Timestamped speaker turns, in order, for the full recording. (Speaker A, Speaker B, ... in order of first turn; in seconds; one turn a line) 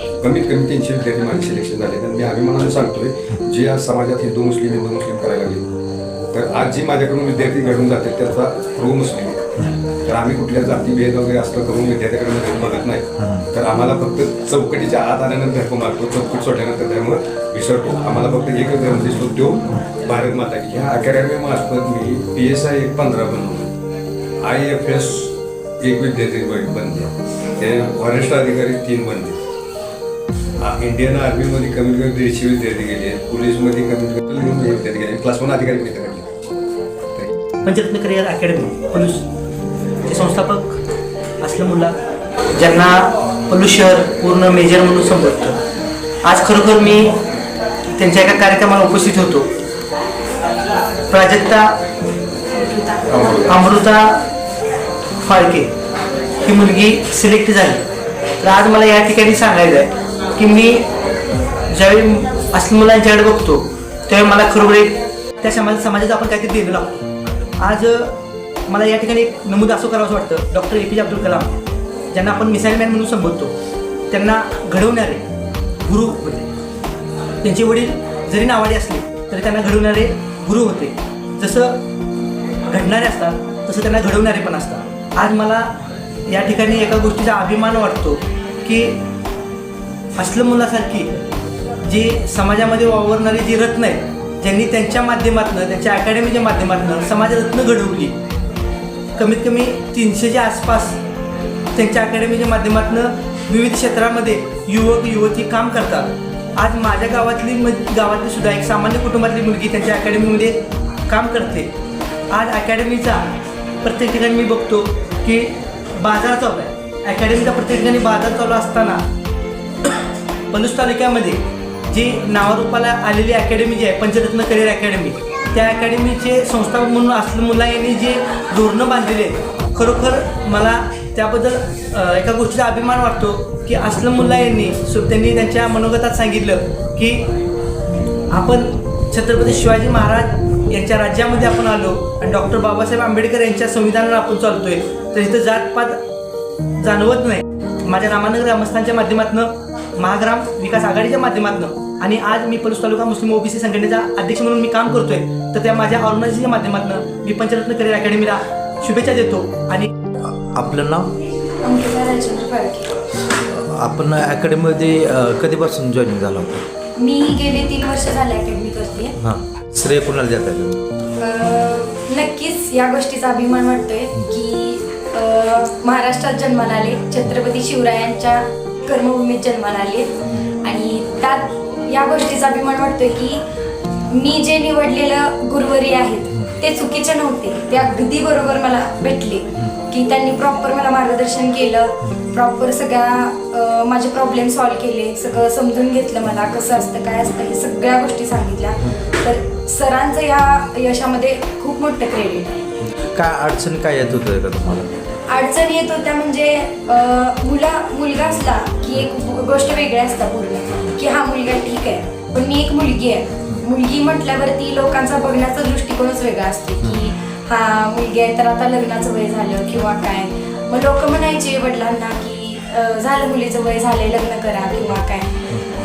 Speaker A: 0.2-5.7
Speaker A: 6.3-9.4
Speaker A: 10.1-23.7
Speaker A: 24.4-29.4
Speaker A: 30.6-36.3
Speaker B: 37.6-39.3
Speaker B: 40.1-40.8
Speaker B: 41.4-41.9
Speaker B: 42.6-45.6
Speaker B: 46.2-47.2
Speaker B: 48.0-49.5
Speaker B: 51.1-51.8
Speaker A: 53.1-53.5
Speaker B: 53.5-54.2
Speaker B: 55.2-55.7
Speaker B: 56.4-57.9
Speaker B: 58.4-60.9
Speaker B: 61.7-67.0
Speaker B: 67.6-68.2
Speaker B: 68.7-71.6
Speaker B: 72.1-73.5
Speaker B: 74.1-75.3
Speaker B: 75.8-76.5
Speaker B: 77.4-81.8
Speaker B: 82.7-85.7
Speaker B: 86.3-89.0
Speaker B: 90.2-91.1
Speaker B: 91.8-98.2
Speaker B: 99.2-101.0
Speaker B: 101.8-111.7
Speaker B: 112.3-113.3
Speaker B: 113.8-119.0
Speaker B: 120.5-137.3
Speaker B: 138.3-146.0
Speaker B: 146.8-159.9
Speaker C: 160.2-161.1
Speaker D: 161.5-162.9
Speaker C: 163.4-166.7
Speaker D: 167.0-169.2
Speaker C: 169.2-170.8
Speaker D: 171.2-183.4
Speaker D: 184.1-202.6
Speaker C: 203.0-204.9
Speaker D: 205.3-225.4